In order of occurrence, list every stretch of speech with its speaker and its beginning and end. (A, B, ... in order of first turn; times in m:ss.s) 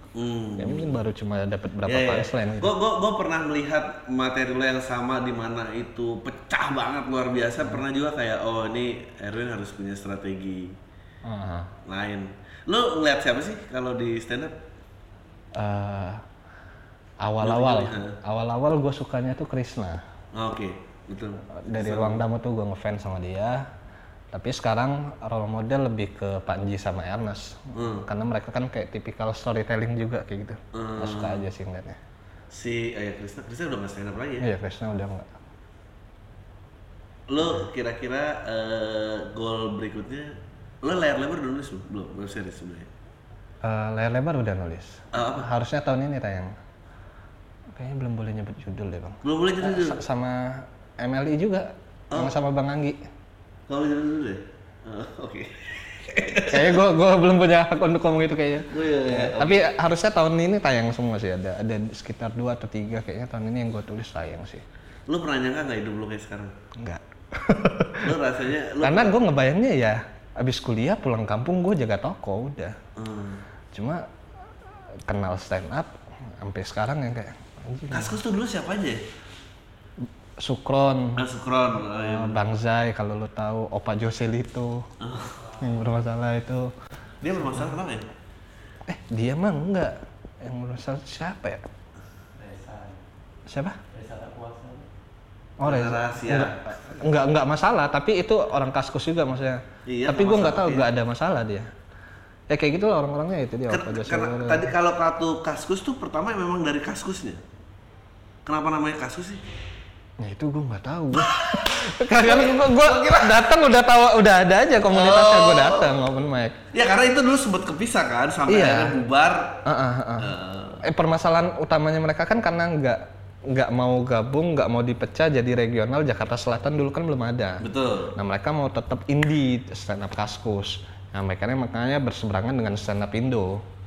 0:00.1-0:00.9 A
0:00.6-0:02.7 B
0:01.8-0:10.8 A
0:11.2-0:11.7 B
0:11.8-0:14.5 A
0:15.5-0:16.2 B
0:17.2-0:20.0 B
0:17.4-0:18.2 A
0:20.3-0:22.2 A
0:21.6-0:23.6 B
0:24.3-0:32.0 B
0:27.7-0:28.1 A
0:30.7-0:31.4 A
0:32.5-0:34.5 A
0:34.4-0:35.3 B
0:37.3-0:42.9 A
0:43.6-0:46.5 B
0:45.1-0:45.5 A
0:47.7-0:53.0 B
0:49.2-0:50.0 A
0:53.7-0:56.8 A
0:56.4-1:04.6 B
0:58.7-0:59.7 A
1:05.1-1:06.5 A
1:06.8-1:08.2 B
1:08.0-1:09.2 A
1:08.8-1:12.8 B
1:13.0-1:13.4 A
1:13.7-1:14.1 B
1:15.0-1:18.2 B
1:17.9-1:19.0 A
1:20.4-1:21.2 B
1:21.2-1:22.4 A
1:21.8-1:24.9 B
1:25.0-1:25.5 A
1:25.6-1:26.7 B
1:27.2-1:28.1 A
1:28.9-1:31.6 B
1:32.4-1:33.0 A
1:33.5-1:33.8 B
1:33.9-1:34.9 A
1:35.6-1:41.7 B
1:35.6-1:36.8 A
1:39.8-1:40.9 A
1:42.5-1:44.7 B
1:43.7-1:47.4 A
1:48.4-1:49.4 A
1:50.2-1:56.6 B
1:51.2-1:53.5 A
1:54.9-1:56.0 A
1:56.7-1:59.6 A
1:58.5-1:59.0 B
1:59.6-2:07.6 B
2:00.2-2:00.8 A
2:07.6-2:08.2 A
2:08.2-2:13.6 B